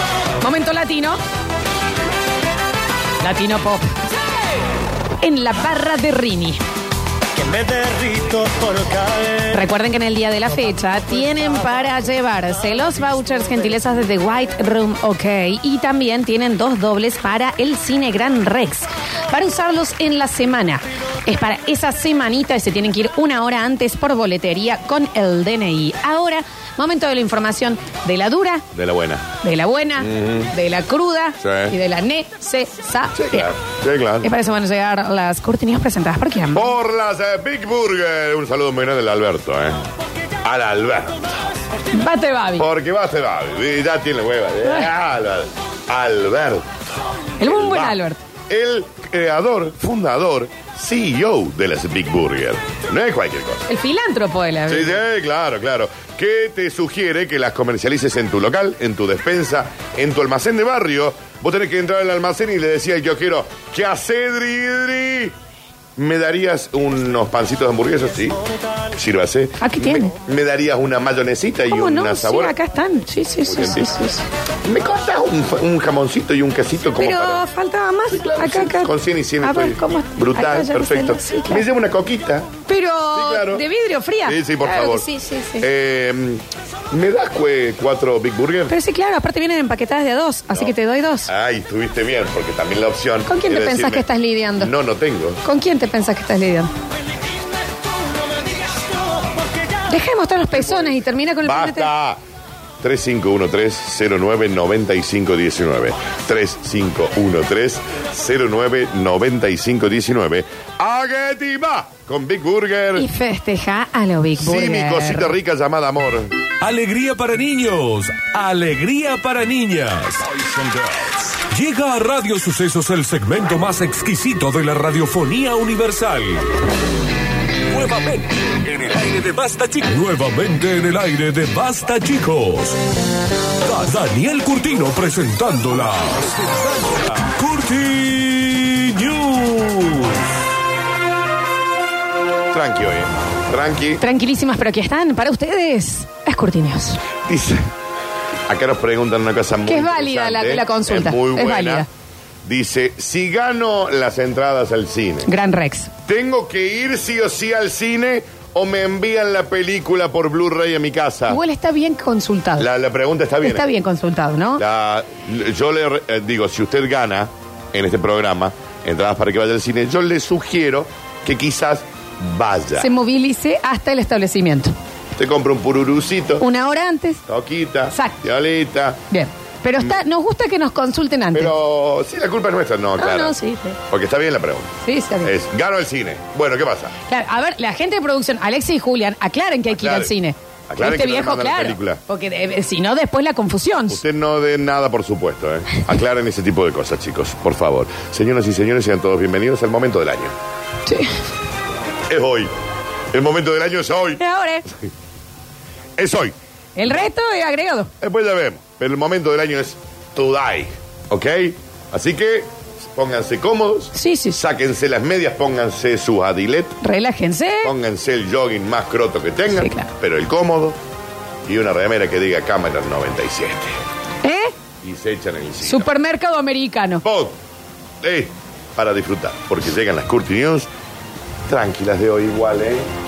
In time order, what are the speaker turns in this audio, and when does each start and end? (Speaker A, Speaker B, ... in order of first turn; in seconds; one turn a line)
Speaker A: 0.4-1.2
Speaker A: 3.2-3.9
Speaker A: 5.2-6.6
Speaker B: 7.3-9.5
Speaker A: 9.5-28.6
Speaker C: 28.7-29.3
Speaker A: 29.4-33.5
Speaker C: 30.0-30.5
Speaker C: 31.4-31.8
Speaker C: 33.1-34.3
Speaker A: 34.2-36.7
Speaker C: 36.5-39.8
Speaker C: 40.4-41.4
Speaker A: 41.9-42.7
Speaker C: 42.6-46.8
Speaker A: 47.4-48.2
Speaker C: 47.4-53.7
Speaker A: 53.7-55.0
Speaker C: 54.7-65.3
Speaker C: 66.0-68.4
Speaker C: 68.9-72.5
Speaker A: 69.6-70.1
Speaker A: 71.7-74.2
Speaker C: 73.4-73.9
Speaker C: 74.6-77.4
Speaker A: 77.0-81.7
Speaker C: 78.1-82.5
Speaker A: 82.7-85.7
Speaker C: 83.1-83.6
Speaker C: 84.2-88.8
Speaker A: 88.7-91.3
Speaker C: 90.5-95.4
Speaker A: 93.3-94.7
Speaker A: 95.4-96.7
Speaker A: 99.9-101.9
Speaker C: 100.5-102.2
Speaker C: 102.8-113.1
Speaker A: 113.0-115.3
Speaker C: 114.4-116.3
Speaker D: 116.6-126.5
Speaker D: 127.7-132.8
Speaker D: 133.6-140.2
Speaker C: 142.5-144.0
Speaker A: 144.0-147.0
Speaker C: 147.2-147.7
Speaker C: 148.5-151.9
Speaker A: 149.7-151.9
Speaker C: 152.4-155.3
Speaker A: 155.2-155.9
Speaker C: 156.1-161.4
Speaker A: 161.3-162.7
Speaker C: 162.6-163.7
Speaker A: 163.4-164.6
Speaker C: 164.6-172.9
Speaker A: 172.8-174.8
Speaker C: 175.2-176.5
Speaker A: 176.4-177.2
Speaker C: 177.3-179.0
Speaker A: 177.9-178.2
Speaker A: 179.1-181.5
Speaker C: 181.3-186.9
Speaker A: 183.0-183.8
Speaker A: 184.8-185.3
Speaker A: 187.1-194.0
Speaker C: 189.7-190.1
Speaker C: 190.7-192.0
Speaker C: 193.9-200.3
Speaker A: 200.9-201.1
Speaker C: 202.1-202.5
Speaker C: 203.1-204.2
Speaker A: 204.2-204.7
Speaker C: 206.0-206.3
Speaker A: 206.8-207.9
Speaker C: 208.0-216.8
Speaker A: 213.9-214.4
Speaker A: 216.8-217.7
Speaker C: 217.6-220.8
Speaker A: 219.6-219.9
Speaker C: 221.5-223.8
Speaker A: 224.2-224.5
Speaker C: 224.8-225.9
Speaker A: 225.6-227.0
Speaker C: 227.0-227.4
Speaker C: 228.0-230.7
Speaker C: 231.5-232.9